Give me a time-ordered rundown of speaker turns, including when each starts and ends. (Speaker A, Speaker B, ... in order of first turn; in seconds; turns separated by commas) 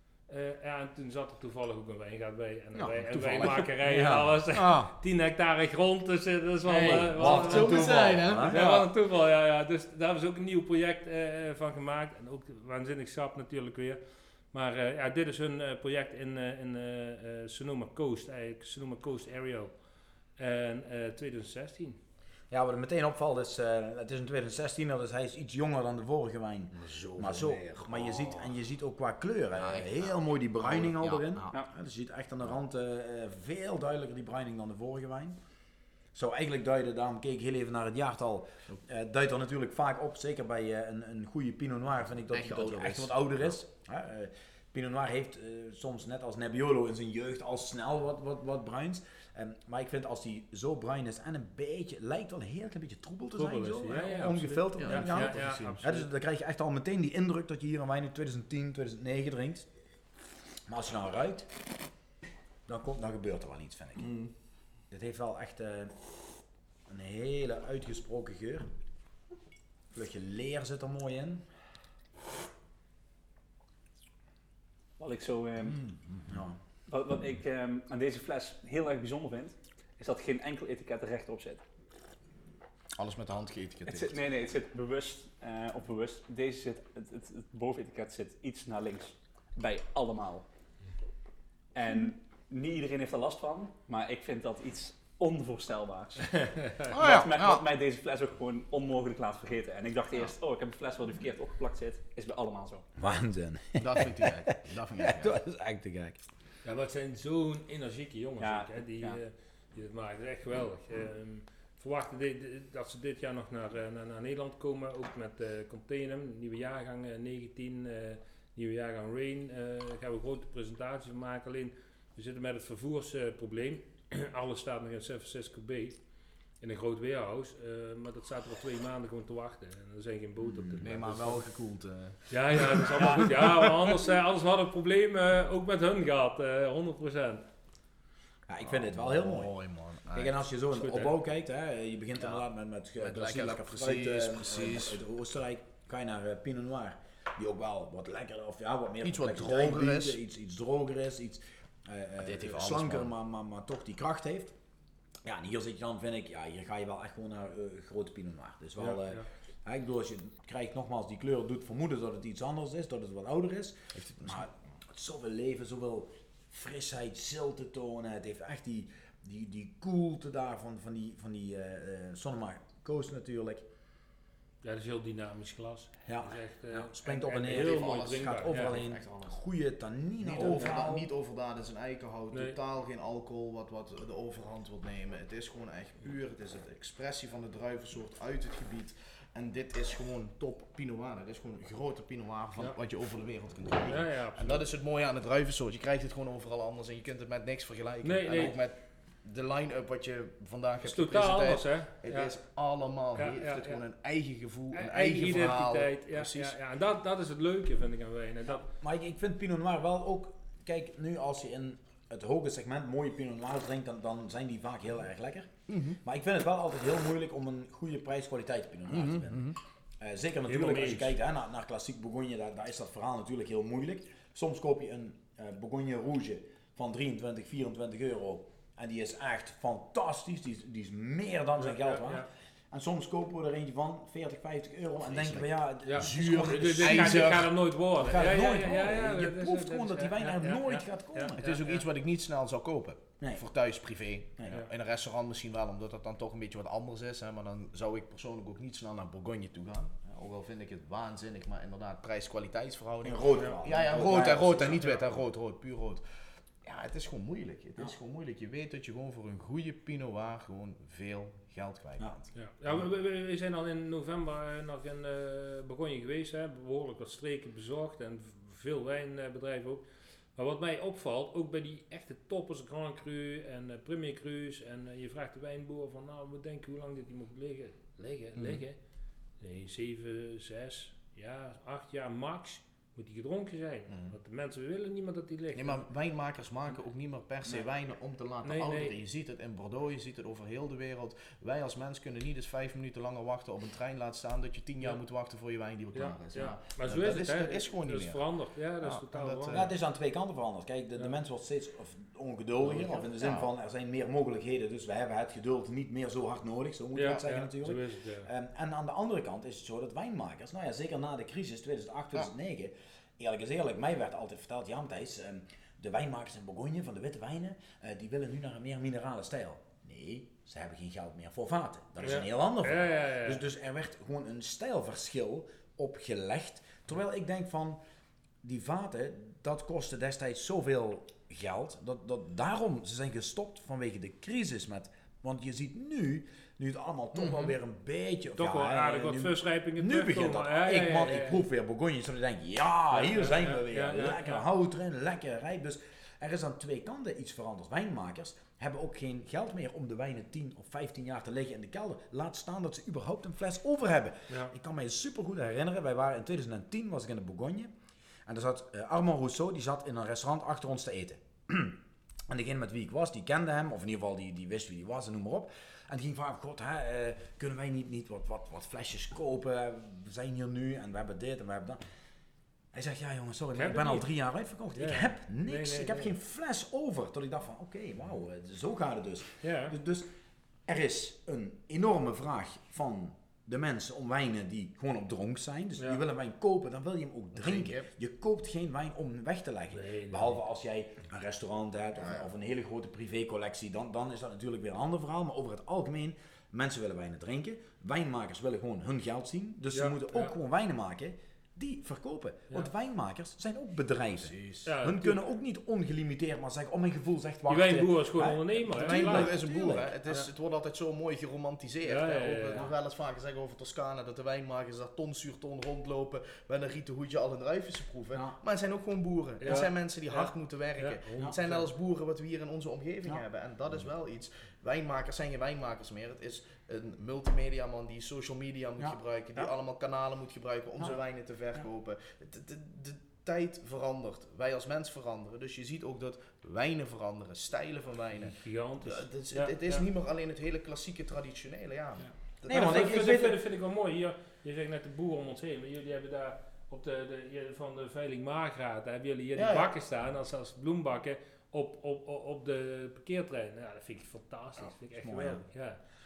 Speaker A: 0.3-14.0, Speaker B: 2.8-4.9, Speaker C: 3.9-4.9, Speaker B: 6.7-8.9, Speaker C: 6.9-8.7, Speaker A: 14.5-19.8, Speaker A: 20.4-22.0, Speaker C: 22.5-35.4, Speaker B: 26.7-28.5, Speaker B: 29.6-31.5, Speaker C: 36.1-59.7, Speaker B: 42.3-43.3, Speaker A: 53.4-56.1, Speaker B: 54.8-55.9, Speaker C: 60.7-61.5, Speaker C: 62.7-64.1, Speaker B: 64.0-64.3, Speaker C: 64.9-66.0, Speaker C: 66.9-68.7, Speaker C: 69.9-71.5, Speaker D: 75.0-75.9, Speaker B: 75.6-76.3, Speaker C: 76.3-76.6, Speaker D: 76.9-81.6, Speaker B: 83.0-84.2, Speaker D: 83.9-90.5, Speaker D: 91.7-102.9, Speaker B: 96.9-97.6, Speaker C: 103.0-106.2, Speaker B: 103.8-105.3, Speaker A: 106.6-126.0, Speaker D: 108.4-109.2, Speaker A: 126.6-131.4, Speaker C: 130.4-130.9, Speaker B: 130.8-133.7, Speaker A: 132.3-137.4, Speaker C: 138.5-139.5, Speaker B: 138.6-140.4, Speaker C: 140.1-154.5, Speaker A: 140.7-141.2, Speaker B: 143.0-145.0, Speaker B: 149.0-150.2, Speaker B: 152.2-153.1, Speaker C: 155.2-173.7, Speaker A: 158.8-159.3, Speaker B: 163.9-164.5, Speaker A: 174.6-178.8, Speaker C: 176.1-181.1, Speaker B: 177.4-179.4, Speaker B: 180.2-206.6, Speaker A: 182.3-182.6, Speaker A: 193.9-194.6, Speaker A: 198.0-198.6, Speaker A: 200.8-202.3, Speaker A: 203.2-203.8, Speaker A: 204.7-208.7, Speaker C: 208.6-237.4, Speaker B: 215.7-216.0, Speaker B: 218.9-219.6, Speaker A: 220.5-221.2, Speaker A: 231.6-232.3, Speaker B: 235.0-237.5, Speaker A: 235.8-241.8, Speaker C: 237.9-241.4, Speaker B: 241.4-256.0, Speaker C: 253.0-255.0, Speaker A: 254.6-255.0, Speaker B: 256.6-262.3, Speaker A: 262.3-269.8, Speaker A: 270.4-278.8, Speaker B: 278.4-278.6, Speaker A: 279.4-285.9, Speaker B: 283.9-284.2, Speaker B: 285.6-298.2, Speaker A: 288.4-289.0, Speaker A: 295.9-299.7, Speaker B: 298.8-299.7, Speaker C: 299.5-327.8, Speaker B: 302.6-303.5, Speaker A: 306.9-308.3, Speaker A: 322.0-323.4, Speaker C: 328.4-357.7, Speaker B: 337.2-337.6, Speaker A: 338.4-341.4, Speaker A: 342.9-344.4, Speaker C: 358.3-371.8, Speaker C: 372.7-380.1, Speaker A: 373.5-374.1, Speaker A: 374.7-376.1, Speaker A: 379.4-379.8, Speaker C: 380.7-409.9, Speaker B: 387.4-387.9, Speaker A: 389.7-390.4, Speaker B: 392.0-392.3, Speaker A: 399.7-400.3, Speaker B: 404.2-404.7, Speaker A: 404.7-405.2, Speaker A: 407.5-409.3, Speaker B: 408.7-443.0, Speaker A: 411.9-412.7, Speaker A: 419.4-421.7, Speaker C: 428.8-429.5, Speaker A: 438.2-439.9, Speaker A: 442.0-455.8, Speaker C: 442.5-443.4, Speaker B: 449.4-449.7, Speaker C: 455.0-455.4